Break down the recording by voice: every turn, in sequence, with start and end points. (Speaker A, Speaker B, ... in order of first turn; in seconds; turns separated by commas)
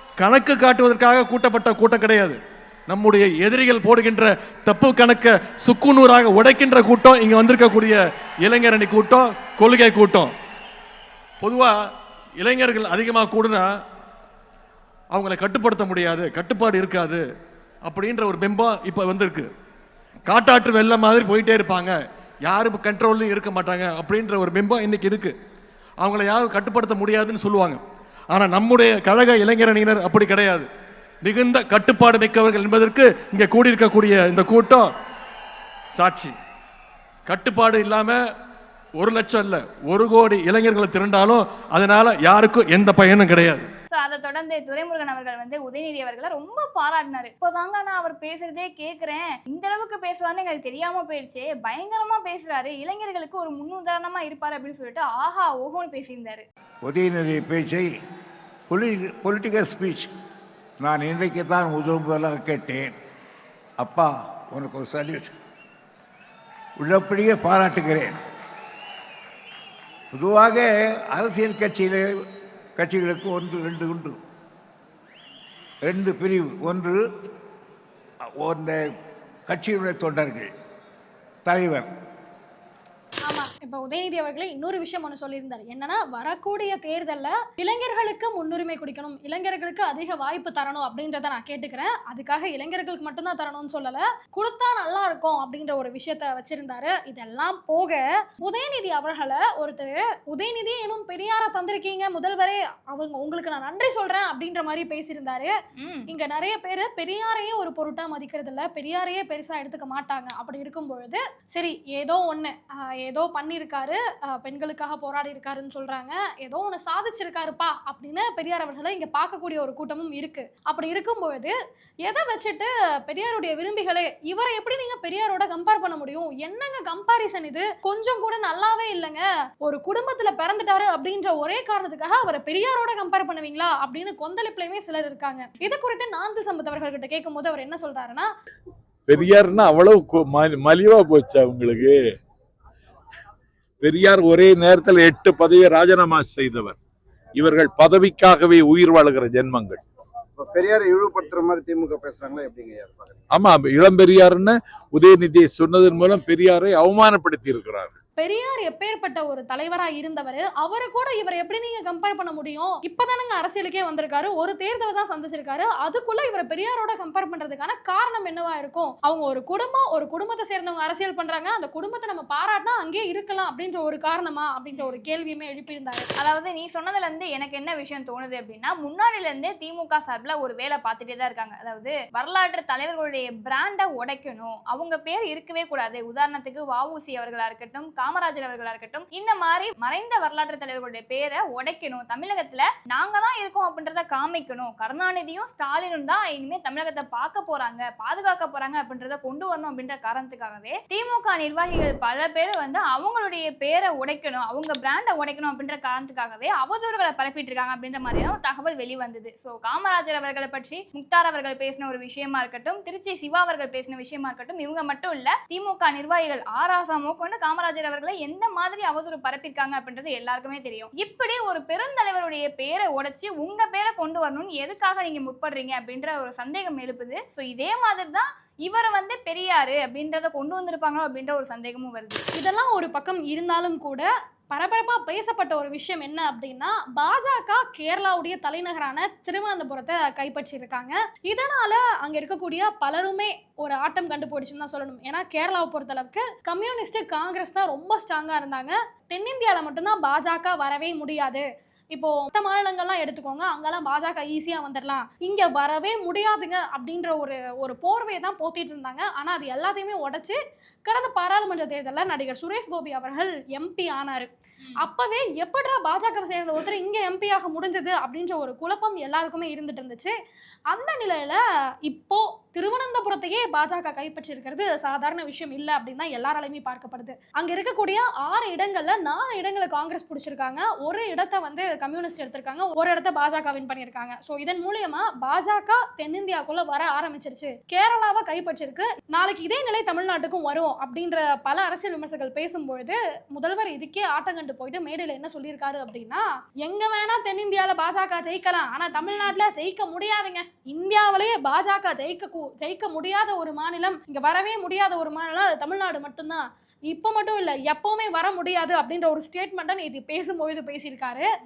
Speaker A: 0.2-10.3, Speaker A: 11.4-11.8, Speaker A: 12.4-13.7, Speaker A: 15.1-17.2, Speaker A: 17.8-19.5, Speaker A: 20.3-25.4, Speaker A: 26.0-30.7, Speaker A: 31.2-34.9, Speaker A: 35.9-36.4, Speaker A: 37.3-38.2, Speaker A: 39.0-43.7, Speaker B: 43.9-56.5, Speaker C: 56.9-57.9, Speaker C: 58.7-60.1, Speaker C: 60.8-62.9, Speaker C: 63.8-65.3, Speaker C: 66.8-68.2, Speaker C: 70.1-72.2, Speaker C: 72.8-74.2, Speaker C: 75.8-77.0, Speaker C: 78.4-78.9, Speaker C: 79.5-80.5, Speaker C: 81.5-81.9, Speaker D: 83.3-105.5, Speaker B: 105.8-106.1, Speaker D: 106.1-121.5, Speaker D: 122.1-138.3, Speaker E: 139.1-142.0, Speaker E: 143.8-146.8, Speaker E: 147.4-149.8, Speaker F: 150.4-153.2, Speaker E: 153.3-157.9, Speaker D: 158.2-176.1, Speaker B: 174.7-175.0, Speaker B: 176.2-232.3, Speaker D: 232.4-264.3, Speaker D: 264.8-270.1, Speaker D: 270.7-311.2, Speaker B: 299.0-299.3